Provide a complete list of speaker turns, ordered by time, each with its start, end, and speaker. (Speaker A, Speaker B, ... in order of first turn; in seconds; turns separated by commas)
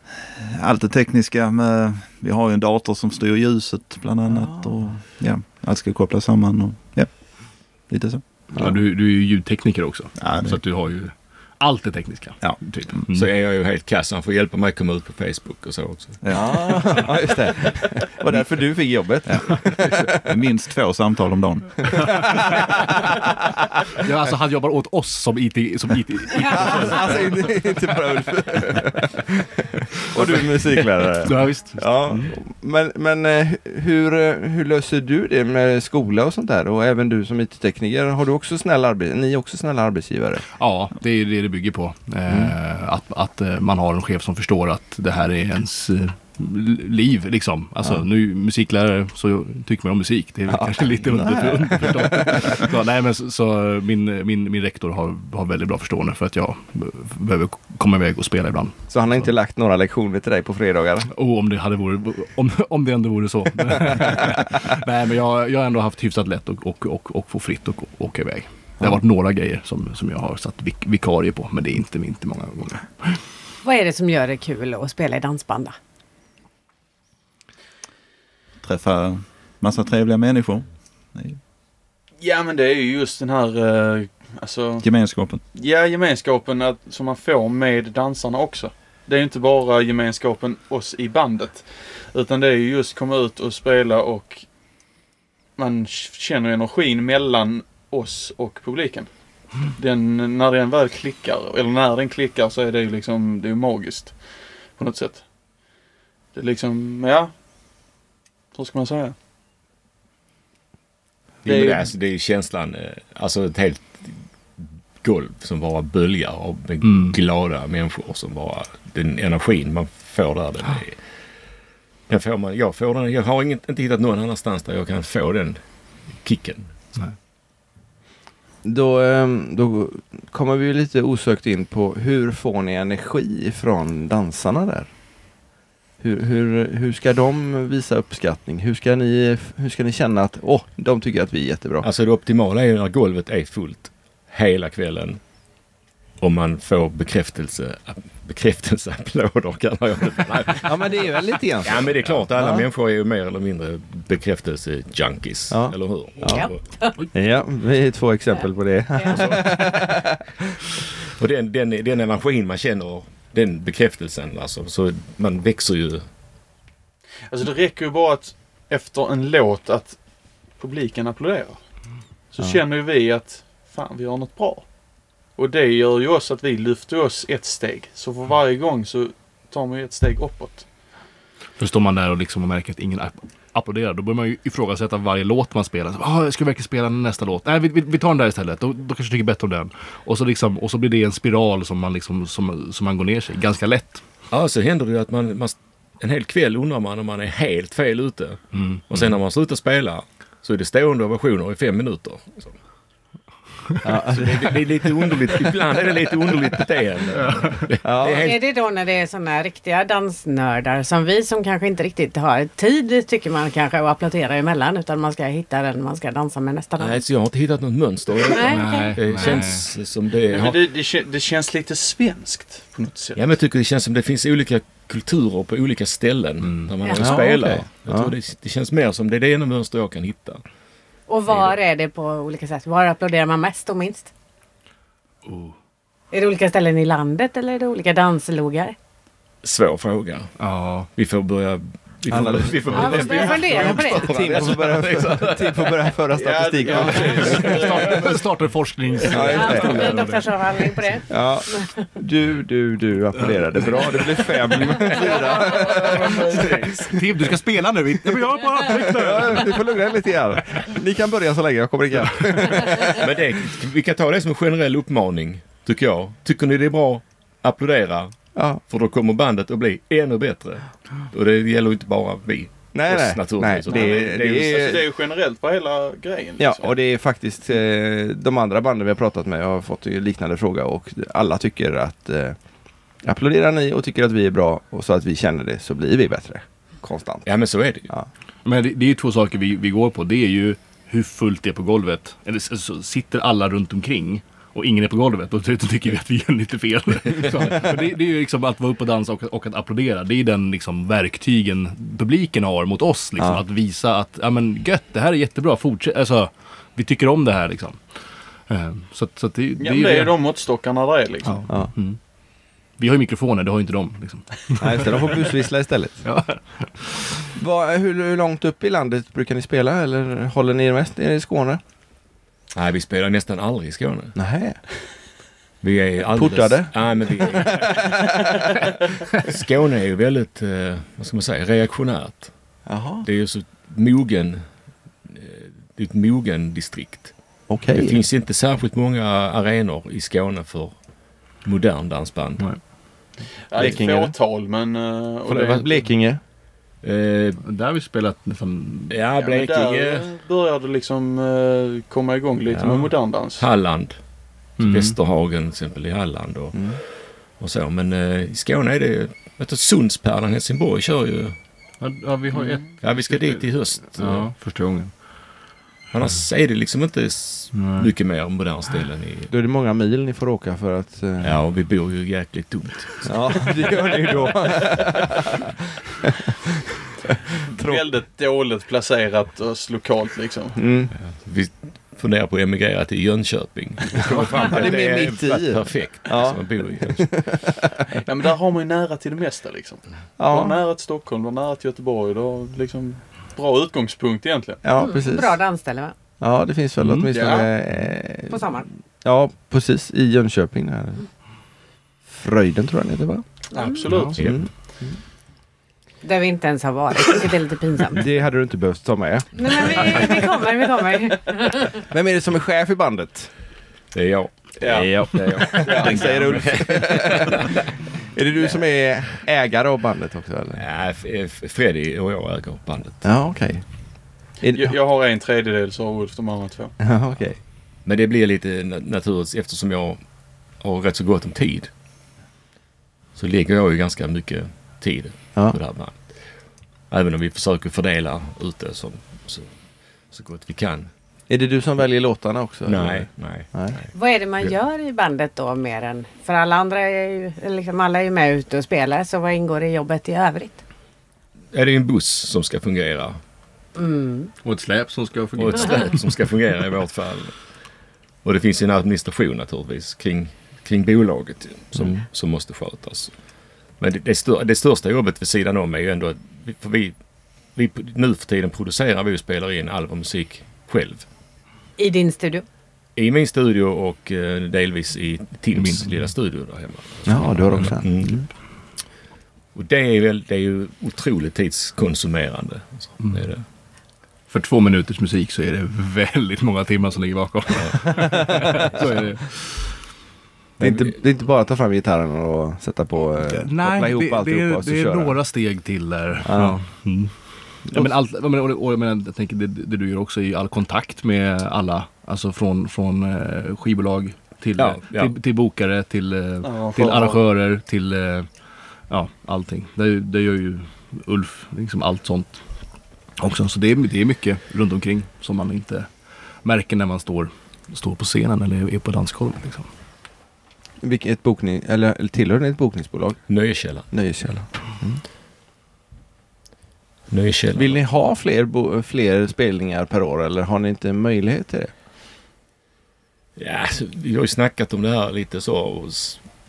Speaker A: 0.2-8.2, Speaker B: 4.3-4.7, Speaker C: 8.5-13.3, Speaker A: 10.2-10.6, Speaker A: 12.4-13.1, Speaker D: 13.1-16.2, Speaker A: 16.2-17.0, Speaker B: 16.3-20.3, Speaker A: 19.3-19.6, Speaker A: 20.3-21.7, Speaker B: 22.0-22.7, Speaker C: 24.0-27.5, Speaker B: 26.5-40.5, Speaker C: 30.0-30.6, Speaker C: 31.2-32.3, Speaker C: 40.5-59.3, Speaker B: 42.3-42.5, Speaker B: 50.5-52.6, Speaker B: 58.9-61.1, Speaker C: 61.1-73.2, Speaker E: 73.6-75.8, Speaker A: 78.6-81.4, Speaker F: 82.2-84.8, Speaker A: 84.8-85.4, Speaker F: 85.5-94.4, Speaker F: 95.6-99.1, Speaker F: 99.7-104.2, Speaker F: 104.8-105.2, Speaker F: 106.3-107.3, Speaker F: 108.5-109.2, Speaker D: 111.4-114.2, Speaker F: 111.5-111.8, Speaker D: 115.0-121.0, Speaker C: 116.8-117.2, Speaker D: 122.1-125.6, Speaker D: 126.2-126.7, Speaker B: 128.6-134.9, Speaker B: 136.0-141.9, Speaker D: 141.8-145.2, Speaker D: 146.2-151.1, Speaker B: 150.7-152.7, Speaker D: 151.6-156.6, Speaker B: 155.5-156.5, Speaker E: 156.3-156.9, Speaker B: 157.1-160.2, Speaker D: 159.1-159.4, Speaker D: 161.1-166.1, Speaker F: 167.3-170.0, Speaker F: 170.6-171.6, Speaker F: 172.3-174.7, Speaker F: 175.4-180.7, Speaker C: 181.6-194.0, Speaker D: 194.3-202.5, Speaker C: 198.5-199.1, Speaker B: 203.8-204.5, Speaker D: 204.1-208.4, Speaker C: 207.2-207.7, Speaker B: 207.8-208.3, Speaker E: 208.2-217.0, Speaker D: 216.8-220.6, Speaker E: 218.3-219.4, Speaker C: 218.4-219.7, Speaker F: 220.3-223.2, Speaker D: 223.2-230.4, Speaker C: 226.4-226.7, Speaker E: 226.8-227.2, Speaker B: 227.0-228.1, Speaker E: 231.1-234.1, Speaker D: 231.3-231.6, Speaker C: 235.2-235.5, Speaker E: 236.1-238.8, Speaker D: 239.4-240.3, Speaker C: 240.4-240.9, Speaker D: 240.9-245.9, Speaker B: 242.1-247.4, Speaker E: 242.7-244.1, Speaker F: 246.2-248.1, Speaker C: 246.7-250.3, Speaker D: 247.1-248.2, Speaker B: 249.1-250.0, Speaker E: 249.3-251.8, Speaker B: 251.1-256.6, Speaker C: 253.2-253.8, Speaker D: 253.5-257.1, Speaker F: 254.9-256.5, Speaker C: 256.8-259.9, Speaker B: 258.1-263.2, Speaker D: 262.9-268.1, Speaker D: 268.7-274.8, Speaker B: 272.7-274.8, Speaker F: 273.7-276.7, Speaker B: 276.4-282.4, Speaker B: 283.0-287.3, Speaker D: 287.2-287.9, Speaker C: 288.4-307.9, Speaker C: 308.5-310.1, Speaker F: 309.6-311.4, Speaker C: 311.2-312.0, Speaker C: 312.8-315.3, Speaker B: 314.6-316.0, Speaker C: 316.0-317.1, Speaker B: 317.4-321.6, Speaker D: 322.5-324.2, Speaker B: 324.2-324.6, Speaker D: 325.6-328.1, Speaker B: 326.1-328.6, Speaker D: 329.1-332.3, Speaker B: 332.7-333.1, Speaker D: 333.0-334.4, Speaker D: 335.1-337.1, Speaker B: 337.5-338.0, Speaker D: 337.7-340.8, Speaker D: 341.4-342.4, Speaker C: 342.4-342.6, Speaker F: 343.5-345.9, Speaker B: 343.6-344.1, Speaker B: 345.3-346.2, Speaker D: 346.8-347.4, Speaker C: 347.4-349.0, Speaker D: 348.9-350.1, Speaker F: 349.2-353.5, Speaker D: 352.5-354.0, Speaker C: 354.6-355.0, Speaker D: 354.6-356.8, Speaker D: 357.4-361.4, Speaker C: 361.8-364.9, Speaker D: 362.8-364.3, Speaker D: 365.9-369.3, Speaker C: 367.5-367.9, Speaker B: 369.3-371.3, Speaker D: 371.2-374.6, Speaker B: 373.1-376.4, Speaker B: 377.6-377.9, Speaker F: 377.6-380.6, Speaker B: 380.6-380.9, Speaker D: 381.0-387.3, Speaker C: 384.0-384.5, Speaker B: 384.1-387.8, Speaker F: 388.1-394.6, Speaker B: 390.2-390.6, Speaker B: 394.6-395.4, Speaker E: 394.8-395.9, Speaker B: 396.2-398.5, Speaker C: 396.8-397.1, Speaker F: 397.1-397.6, Speaker E: 398.3-398.7, Speaker B: 399.0-401.1, Speaker B: 402.1-403.2, Speaker F: 403.5-404.2, Speaker E: 403.6-403.8, Speaker C: 403.8-404.1, Speaker B: 404.2-405.0, Speaker E: 406.0-408.0, Speaker B: 407.9-410.1, Speaker E: 409.4-411.8, Speaker B: 411.8-413.3, Speaker D: 413.9-417.6, Speaker F: 414.6-416.4, Speaker B: 414.7-417.6, Speaker A: 416.0-416.4, Speaker B: 418.1-420.6, Speaker D: 420.6-423.0, Speaker B: 423.0-423.6, Speaker B: 424.4-424.7, Speaker F: 424.5-426.7, Speaker B: 426.8-427.4, Speaker D: 427.9-430.0, Speaker D: 430.6-431.7, Speaker D: 433.2-436.0, Speaker D: 436.9-439.5, Speaker D: 440.1-440.9, Speaker B: 441.3-443.8, Speaker D: 442.7-443.9, Speaker E: 443.9-450.6, Speaker D: 451.5-453.2, Speaker E: 453.8-454.3, Speaker C: 454.4-455.9, Speaker D: 455.4-457.4, Speaker D: 458.2-463.1, Speaker D: 463.8-466.9, Speaker D: 467.6-471.1, Speaker E: 471.8-472.4, Speaker D: 473.0-478.2, Speaker C: 475.5-476.1, Speaker B: 477.1-478.3, Speaker D: 479.6-483.4, Speaker C: 483.0-483.3, Speaker C: 484.3-489.8, Speaker B: 490.6-495.2, Speaker C: 493.2-508.3, Speaker B: 496.2-496.6, Speaker D: 504.6-505.1, Speaker F: 506.4-507.2, Speaker C: 508.9-512.4, Speaker C: 513.2-515.9, Speaker C: 516.4-519.7, Speaker B: 520.8-523.2, Speaker D: 523.3-524.1, Speaker B: 523.9-525.0, Speaker D: 527.1-527.8, Speaker B: 527.5-531.7, Speaker D: 533.4-536.2